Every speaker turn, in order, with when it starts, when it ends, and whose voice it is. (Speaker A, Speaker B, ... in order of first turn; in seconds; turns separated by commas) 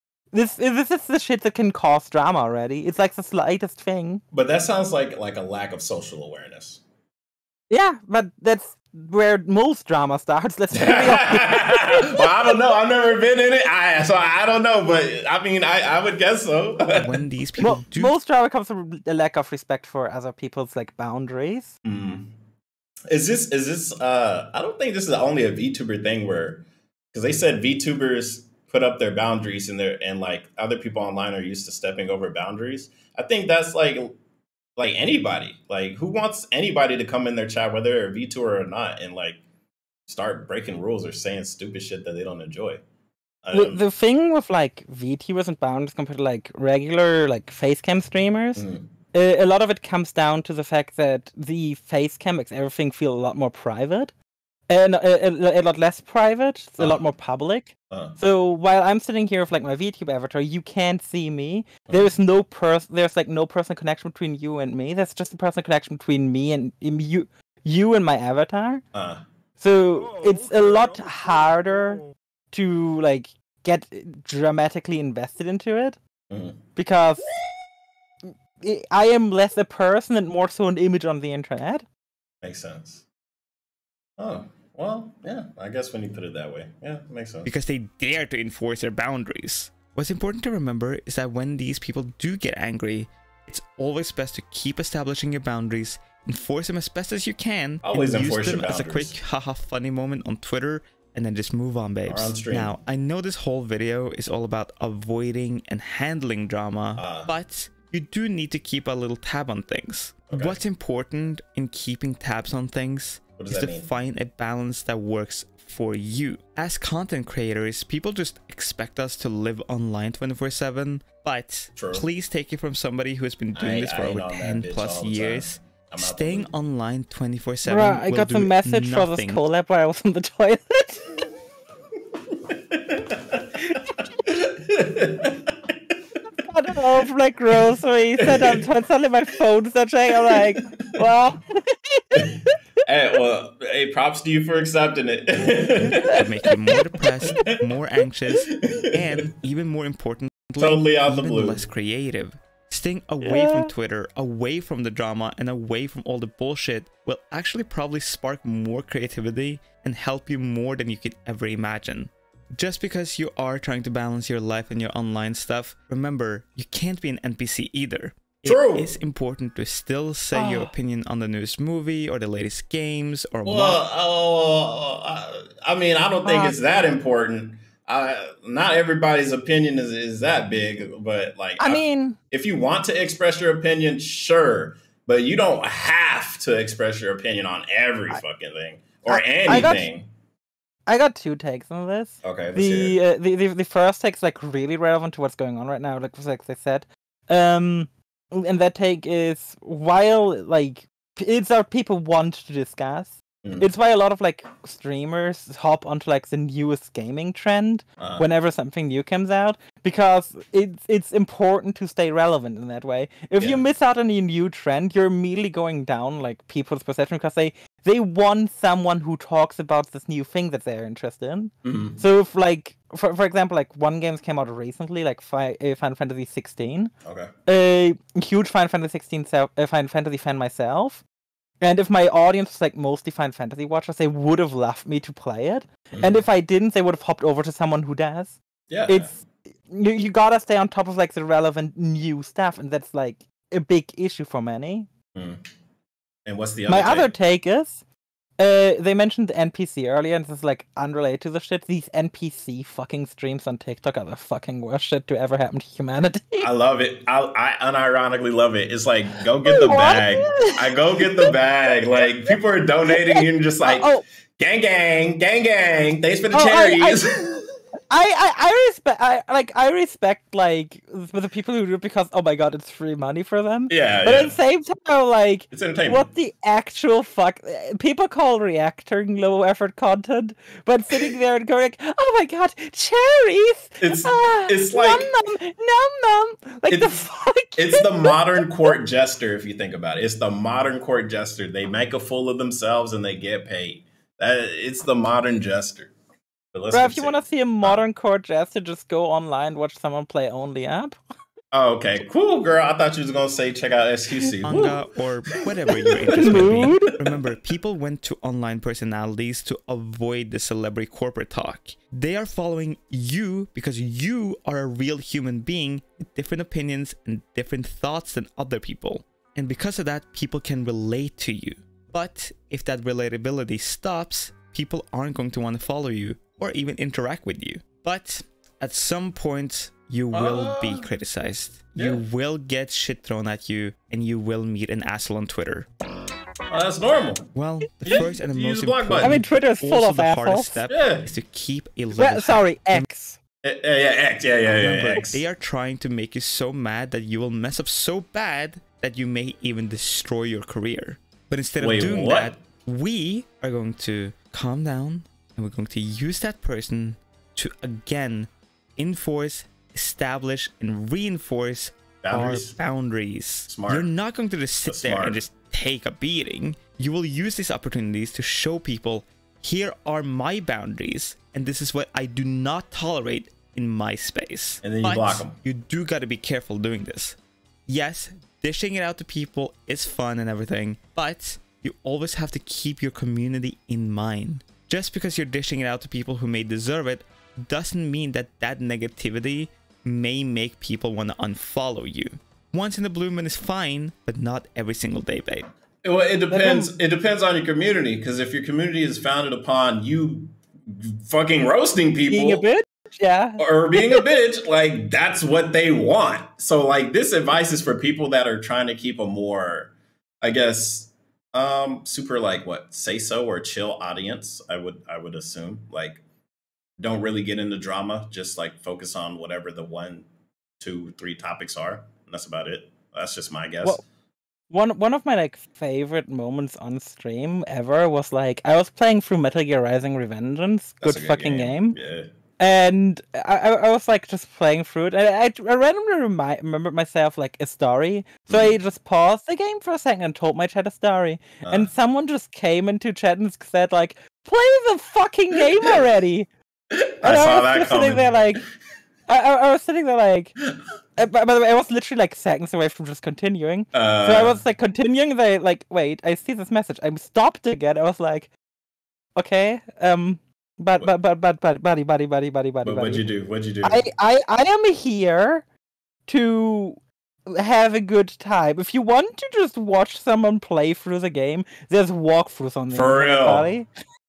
Speaker A: 0.3-4.2, Speaker B: 4.3-6.8, Speaker A: 7.7-12.6, Speaker B: 10.7-17.1, Speaker C: 16.9-18.1, Speaker A: 17.6-21.7, Speaker B: 21.8-22.3, Speaker B: 23.1-26.6, Speaker B: 27.1-34.2, Speaker B: 34.8-39.4, Speaker B: 40.1-42.8, Speaker B: 43.4-43.8, Speaker A: 43.5-54.1, Speaker B: 48.6-48.9, Speaker A: 54.7-68.8, Speaker B: 57.9-58.2, Speaker B: 68.9-69.2, Speaker A: 69.6-76.0, Speaker B: 76.3-76.6, Speaker A: 76.8-77.3, Speaker A: 78.2-81.9, Speaker B: 82.4-83.0, Speaker B: 84.2-87.5, Speaker C: 87.4-129.4, Speaker B: 97.8-99.2, Speaker B: 102.1-102.8, Speaker B: 107.0-107.3, Speaker B: 110.3-110.6, Speaker B: 113.4-113.9, Speaker B: 121.8-122.1, Speaker B: 123.5-126.5, Speaker A: 127.7-131.1, Speaker B: 132.5-135.6, Speaker A: 136.4-142.5, Speaker B: 138.2-138.6, Speaker B: 140.3-140.9, Speaker B: 142.2-146.2, Speaker A: 145.8-146.8, Speaker C: 146.1-173.8, Speaker B: 148.5-149.2, Speaker B: 150.6-151.6, Speaker A: 153.2-153.7, Speaker B: 168.5-168.9, Speaker A: 170.3-170.7, Speaker B: 173.4-190.1, Speaker A: 176.2-176.6, Speaker A: 181.6-182.2, Speaker A: 189.1-189.9, Speaker A: 190.9-226.9, Speaker B: 192.2-193.0, Speaker B: 208.0-208.2, Speaker B: 221.6-222.0, Speaker B: 227.1-227.3, Speaker A: 227.5-231.0, Speaker A: 231.6-244.9, Speaker B: 238.7-239.1, Speaker B: 245.2-245.4, Speaker B: 246.3-247.1, Speaker A: 246.7-247.8, Speaker A: 248.4-256.5, Speaker B: 256.4-267.5, Speaker A: 259.4-261.3, Speaker A: 262.9-264.0, Speaker A: 266.3-267.0, Speaker A: 267.9-288.7, Speaker B: 273.7-274.4, Speaker B: 275.5-276.1, Speaker B: 283.8-285.1, Speaker B: 286.7-287.0, Speaker B: 287.6-295.9, Speaker B: 296.5-297.8, Speaker A: 296.7-301.0, Speaker B: 301.5-304.8, Speaker C: 304.4-335.7, Speaker B: 305.7-306.8, Speaker A: 306.2-306.9, Speaker B: 330.1-330.9, Speaker B: 331.8-332.0, Speaker B: 336.5-337.3, Speaker C: 337.4-342.9, Speaker B: 337.8-339.2, Speaker A: 339.0-340.6, Speaker B: 340.7-341.1, Speaker A: 341.9-343.2, Speaker B: 343.4-345.2, Speaker C: 344.5-395.5, Speaker B: 351.6-352.3, Speaker B: 362.0-362.6, Speaker B: 363.5-363.9, Speaker B: 364.6-365.2, Speaker B: 374.6-375.4, Speaker B: 395.8-402.4, Speaker A: 396.3-396.7, Speaker A: 402.1-404.1, Speaker B: 403.4-416.0, Speaker B: 416.8-420.1, Speaker B: 420.6-423.8, Speaker A: 424.5-431.8, Speaker B: 430.8-432.1, Speaker A: 432.4-446.3, Speaker B: 441.4-441.7, Speaker B: 446.7-448.4, Speaker A: 447.0-448.4, Speaker A: 449.1-450.4, Speaker A: 451.0-458.3, Speaker B: 453.7-454.4, Speaker A: 459.2-463.1, Speaker B: 462.6-463.8, Speaker A: 463.6-465.4, Speaker A: 466.1-473.7, Speaker B: 472.7-473.5